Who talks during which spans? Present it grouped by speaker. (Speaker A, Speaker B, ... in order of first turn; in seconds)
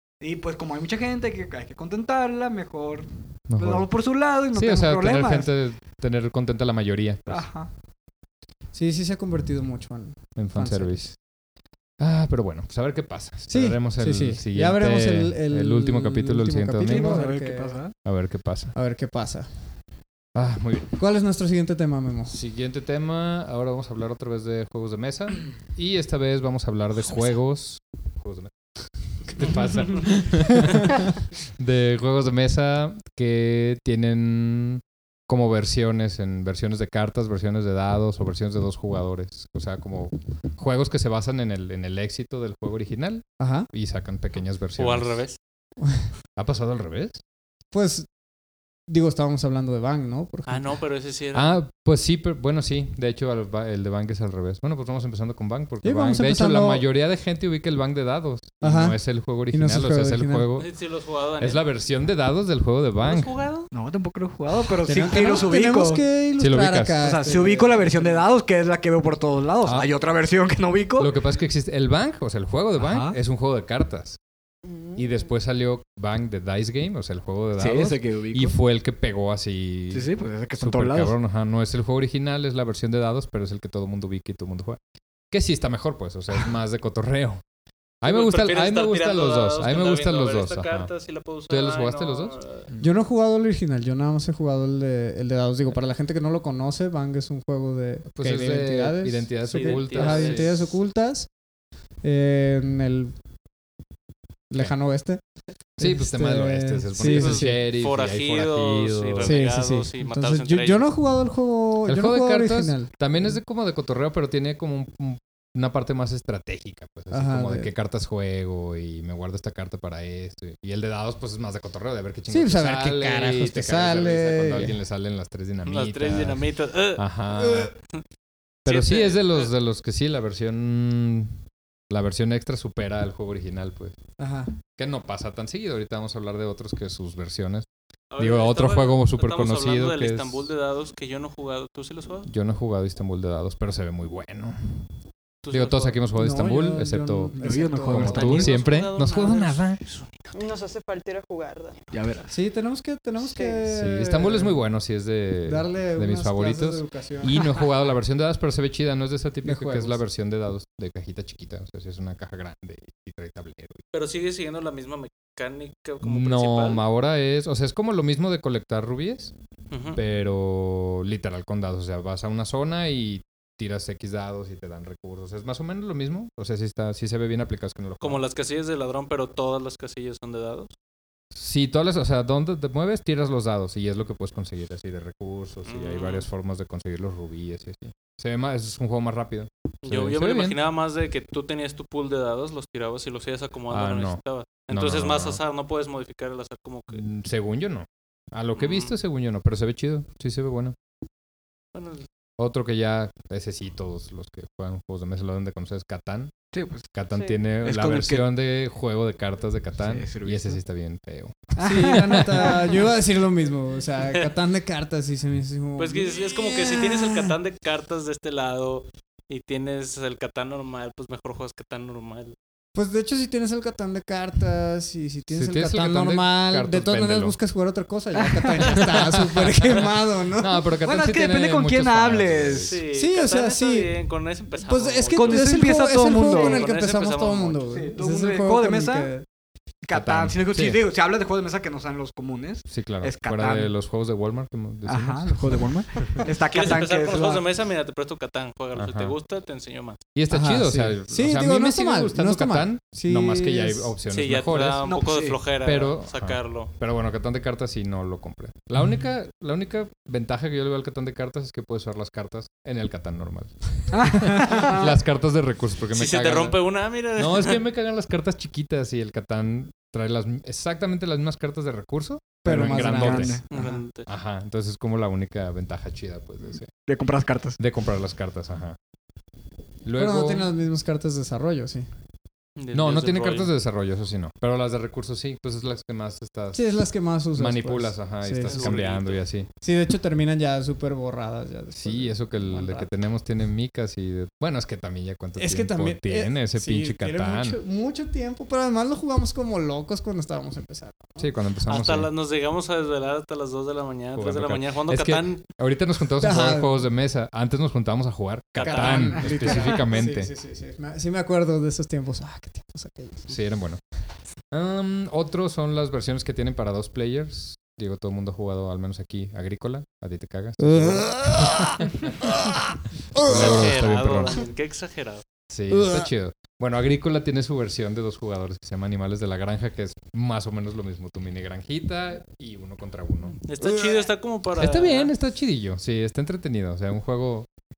Speaker A: 0.2-5.5, 7.3-7.7, 16.8-17.9, 63.7-66.0, 67.0-71.1, 72.8-73.2, 77.6-78.5, 79.9-81.1, 147.3-148.6, 151.9-152.3, 206.5-206.9, 207.6-208.2, 209.8-210.6, 211.6-212.7, 228.1-228.8, 230.8-232.8, 235.1-236.7, 237.7-239.1, 239.8-243.7, 244.8-247.4, 254.8-255.4, 263.9-264.9, 272.8-273.7, 276.8-277.6
Speaker B: 3.5-3.9, 4.5-7.5, 10.3-11.2, 12.0-17.2, 18.0-18.7, 20.3-20.9, 22.3-45.2, 46.4-47.2, 51.3-60.7, 61.4-63.3, 66.4-67.2, 69.6-69.9, 71.0-74.2, 75.0-84.8, 85.3-87.4, 88.0-90.9, 91.5-92.4, 98.1-100.6, 105.8-109.4, 111.9-127.7, 128.7-133.9, 134.8-137.7, 138.2-140.5, 142.2-144.9, 145.5-147.3, 147.9-149.8, 153.7-163.8, 166.0-169.3, 169.9-178.2, 181.3-190.6, 193.7-195.4, 196.9-200.8, 202.4-206.3, 206.9-212.5, 225.3-227.4, 228.8-232.8, 239.9-240.8, 242.7-246.2, 248.7-249.1, 250.1-254.9, 255.6-266.6, 267.1-273.4, 274.1-276.7, 277.6-278.8, 279.8-280.5, 282.7-286.6, 287.3-289.5, 291.8-297.6, 301.2-302.1, 304.1-310.3, 313.3-313.8, 314.5-322.2, 323.1-324.4, 325.5-333.4, 334.5-337.5
Speaker C: 8.7-11.0, 13.5-17.8, 18.7-19.5, 21.0-22.4, 43.4-43.7, 47.7-48.1, 48.9-50.7, 55.8-56.8, 58.6-60.5, 64.8-68.1, 92.8-101.3, 102.0-103.1, 104.5-105.2, 105.8-107.6, 109.2-113.3, 117.1-117.7, 122.3-124.7, 134.2-134.5, 146.1-148.5, 152.3-154.6, 155.4-157.5, 159.4-160.0, 211.6-217.3, 222.7-230.6, 232.9-233.9, 234.6-239.2, 250.3-253.9, 272.4-273.4, 279.9-281.9, 286.5-288.8, 289.6-292.9, 295.4-301.3, 306.2-306.9, 308.6-313.3, 320.6-322.6, 323.1-323.4, 325.7-326.1
Speaker D: 44.8-45.4, 50.5-51.6, 60.5-61.6, 63.0-63.7, 88.0-92.7, 99.5-100.6, 107.0-110.8, 125.7-127.0, 128.6-129.5, 138.1-142.3, 145.4-146.0, 148.0-150.5, 163.9-166.8, 169.7-170.0, 178.0-180.7, 185.7-186.3, 189.8-197.0, 198.6-198.9, 201.7-202.1, 215.8-222.3, 232.6-237.6, 246.5-250.0, 254.1-256.7, 265.9-267.6, 273.5-274.1, 282.6-283.5, 288.4-289.2, 301.7-305.4, 308.5-309.5, 323.2-325.2, 333.4-335.1
Speaker E: 74.6-75.3, 150.3-151.9, 153.2-153.6